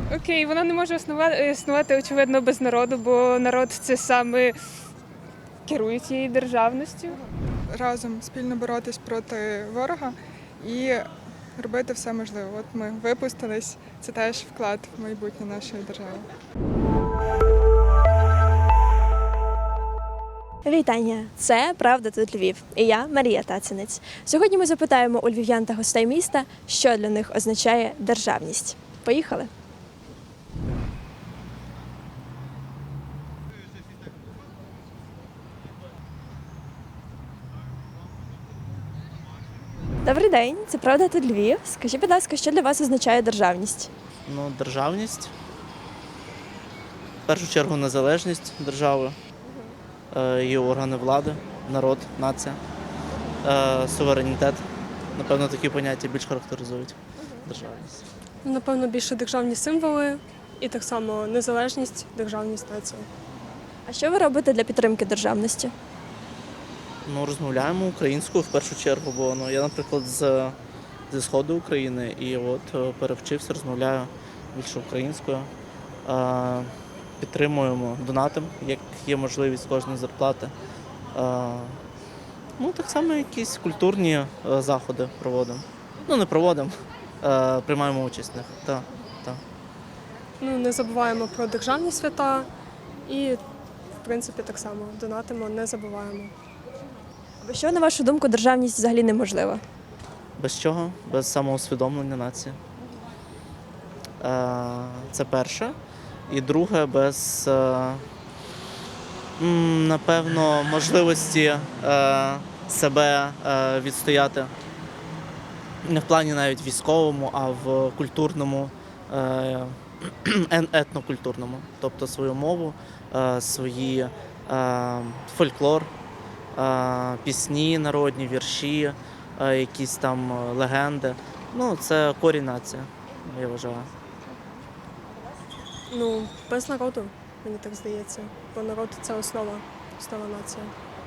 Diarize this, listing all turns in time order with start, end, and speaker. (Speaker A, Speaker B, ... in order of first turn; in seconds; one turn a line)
Speaker A: 0.1-4.5
Speaker A: 5.7-7.2
Speaker B: 7.7-16.3
Speaker C: 20.6-29.5
Speaker C: 40.0-43.9
Speaker D: 44.2-45.3
Speaker D: 47.3-49.2
Speaker D: 50.1-52.6
Speaker D: 53.4-58.0
Speaker E: 58.4-63.1
Speaker C: 63.9-65.7
Speaker D: 67.0-70.5
Speaker D: 71.1-75.5
Speaker D: 76.0-80.5
Speaker D: 81.1-81.8
Speaker D: 82.6-89.4
Speaker E: 90.4-92.5
Speaker E: 93.0-93.4
Speaker E: 94.0-96.3
Speaker C: 97.4-99.6
Speaker D: 100.4-102.6
Speaker D: 104.2-105.8
Speaker D: 106.3-108.0
Speaker D: 109.4-114.5
Speaker D: 115.8-125.9
Speaker D: 126.5-133.9
Speaker E: 135.9-140.7